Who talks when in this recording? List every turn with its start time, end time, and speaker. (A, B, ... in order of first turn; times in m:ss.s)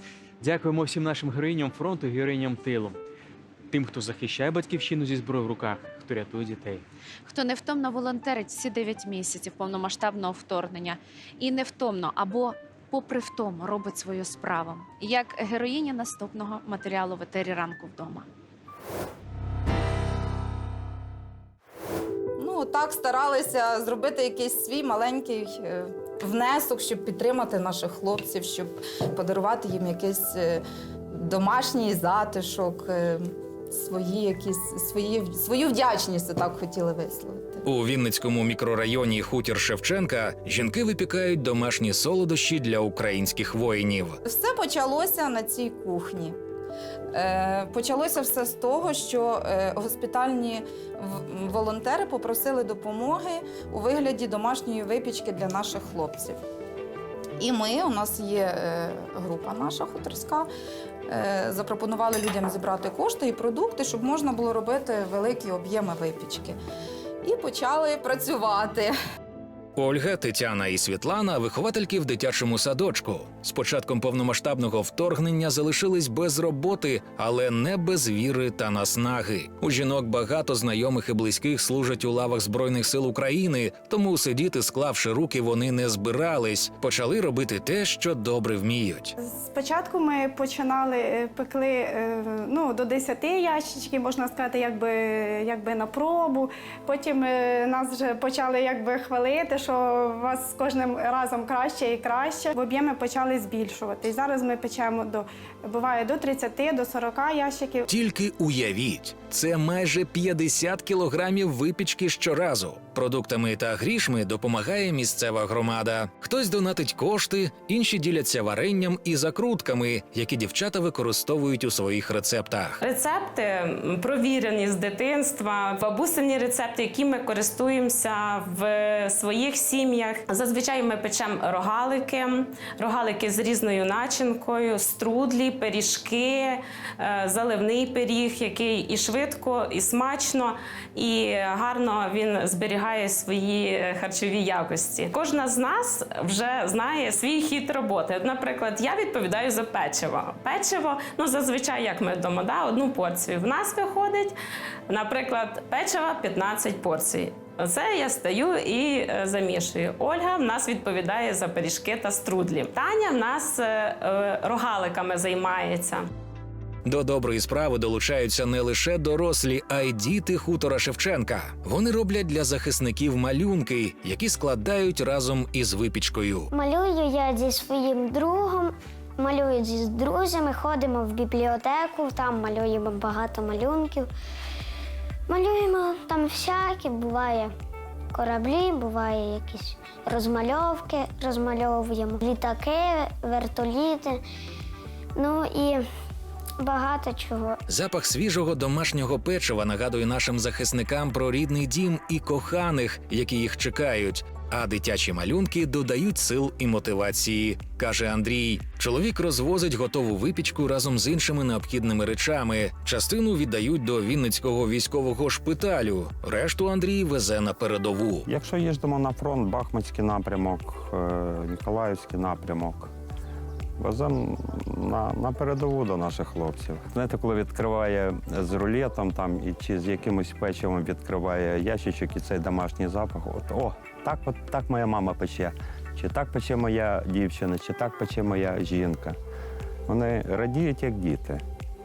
0:00.4-0:03.0 A
0:03.7-0:06.8 A
0:07.3-0:18.3 B
0:22.4-0:37.6 C
0:37.7-0:44.2 D
0:44.2-0:46.4 C
0:47.1-0:56.4 C
0:57.4-1:00.5 C
1:01.1-1:06.6 C
1:07.2-1:08.9 C
1:09.8-1:29.1 D
1:29.2-1:47.9 E
1:47.9-2:02.7 D
2:02.8-2:34.4 F
2:34.9-2:46.0 F
2:46.9-2:56.5 D
2:56.5-3:04.1 G
3:05.3-3:07.5 G
3:08.1-3:14.2 G
3:15.2-3:15.8 G
3:16.6-3:17.6 G
3:17.7-3:38.2 D
3:38.3-3:42.9 H
3:43.8-3:59.2 H
3:59.9-4:01.4 H